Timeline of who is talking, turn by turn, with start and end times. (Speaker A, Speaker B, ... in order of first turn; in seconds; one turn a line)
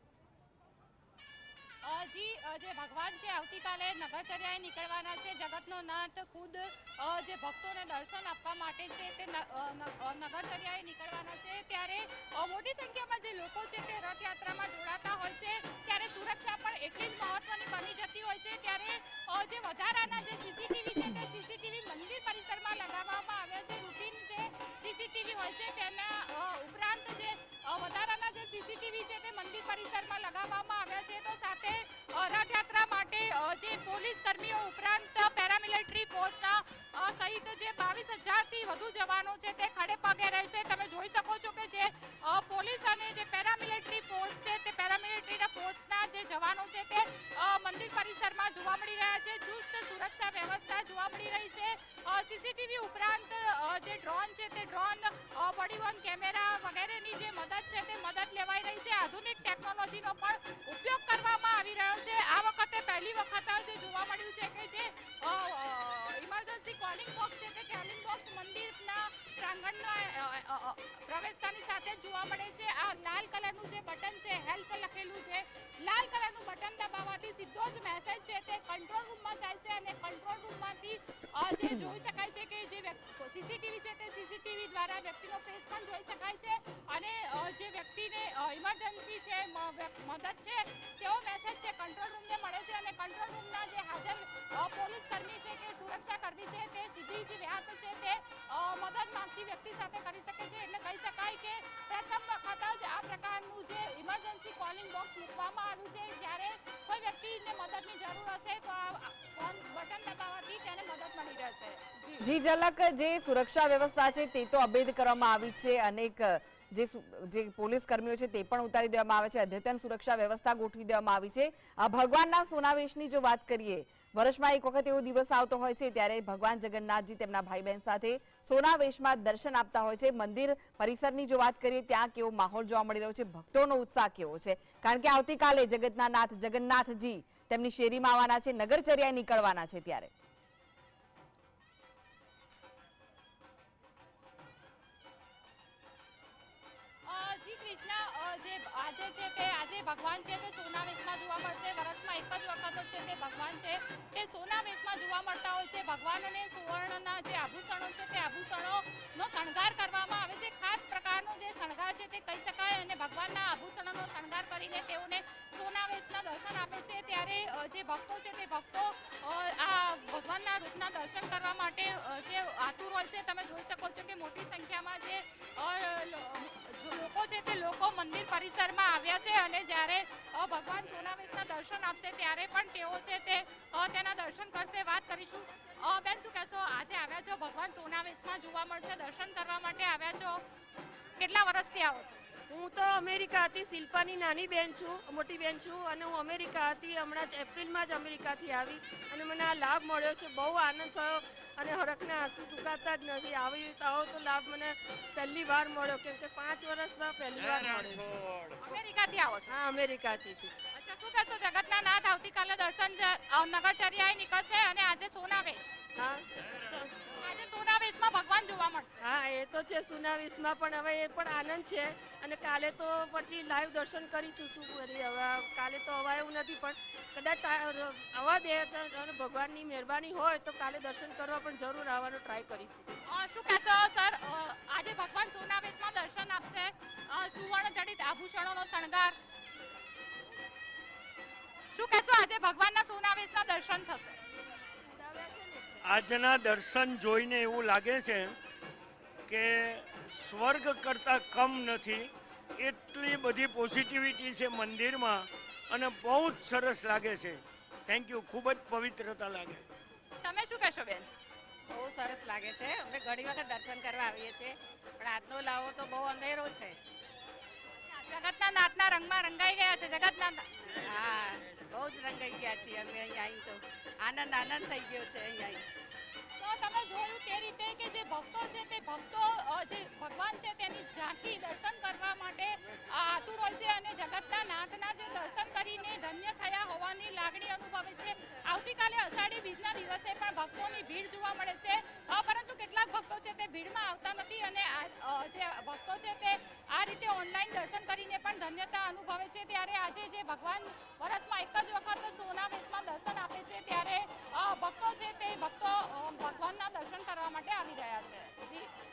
Speaker A: 1.8-112.3
Speaker B: 112.2-140.1
Speaker A: 147.1-190.4
Speaker A: 191.2-192.2
Speaker C: 192.5-208.2
Speaker D: 207.8-208.5
Speaker A: 208.6-209.6
Speaker C: 209.5-210.5
Speaker A: 210.7-215.7
Speaker C: 216.0-217.1
Speaker A: 217.2-219.0
Speaker C: 219.0-232.9
Speaker A: 233.1-239.2
Speaker A: 241.8-244.2
Speaker C: 244.7-245.8
Speaker D: 245.8-248.4
Speaker D: 249.3-259.6
Speaker A: 260.2-261.1
Speaker E: 261.7-266.8
Speaker A: 268.0-270.5
Speaker E: 270.8-275.6
Speaker A: 276.4-308.7